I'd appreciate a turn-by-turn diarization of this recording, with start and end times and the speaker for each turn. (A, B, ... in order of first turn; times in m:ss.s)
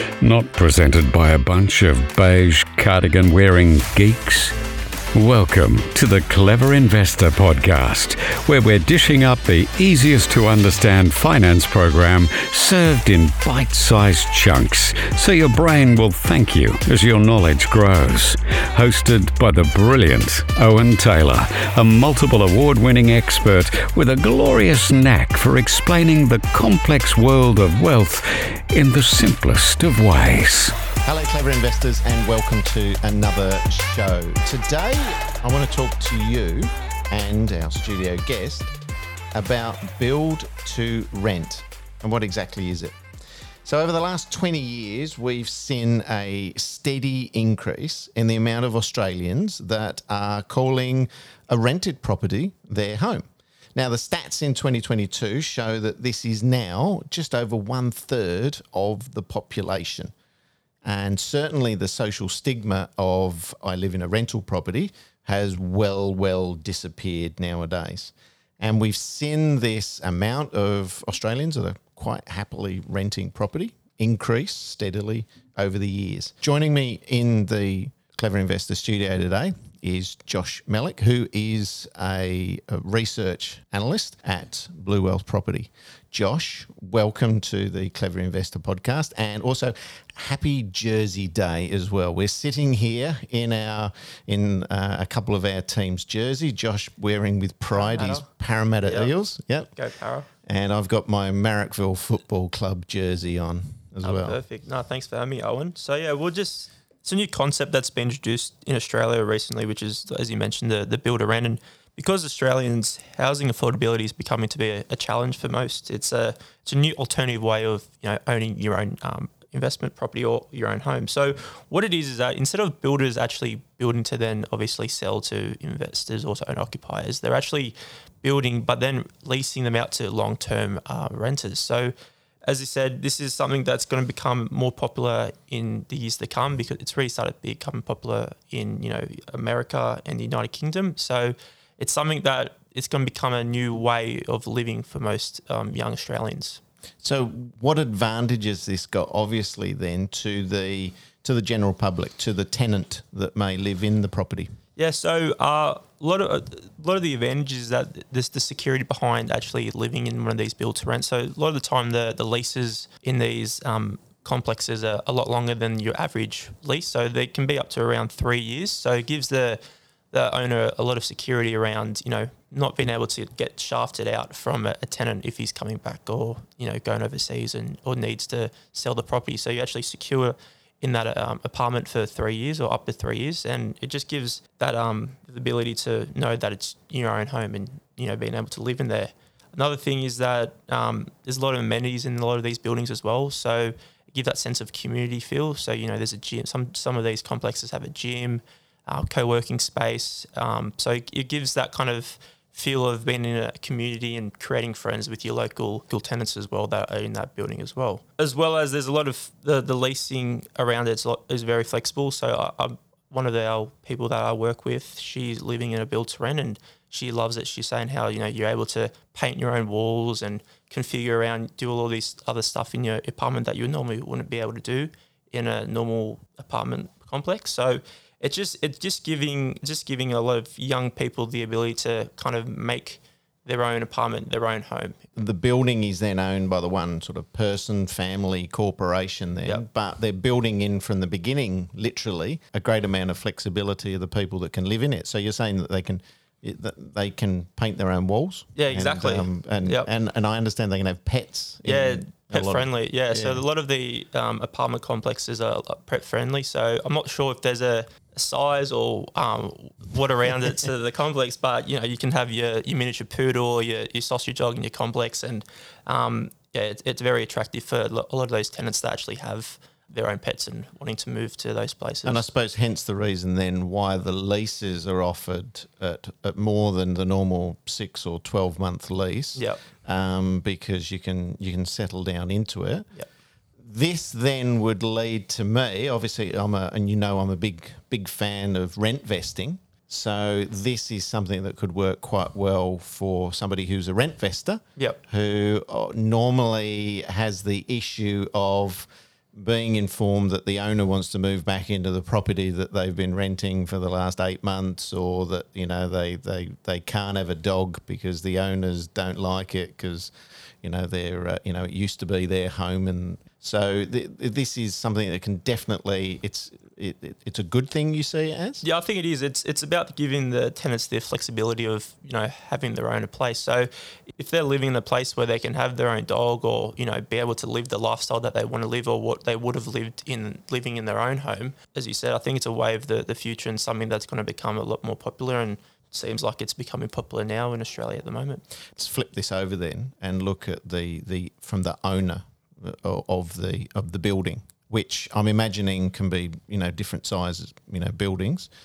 0:00.2-0:04.6 A
0:05.1-0:30.8 A
0:31.0-0:38.7 B
0:39.4-0:43.0 B
0:43.6-0:53.2 B
0:53.8-1:00.1 B
1:00.8-1:39.7 B
1:37.7-1:38.3 C
1:38.8-1:39.1 C
1:39.7-1:40.3 C
1:40.5-1:44.4 B
1:44.0-2:11.9 C
2:12.4-2:26.6 C
2:27.0-2:34.5 B
2:34.8-2:49.6 C
2:50.1-3:55.0 C
3:55.2-4:13.4 B
4:08.6-4:09.9 C
4:11.6-4:32.3 C
4:32.0-4:42.9 B
4:39.4-4:39.6 C
4:43.6-5:18.6 B
5:18.6-5:38.4 C
5:38.8-5:48.5 B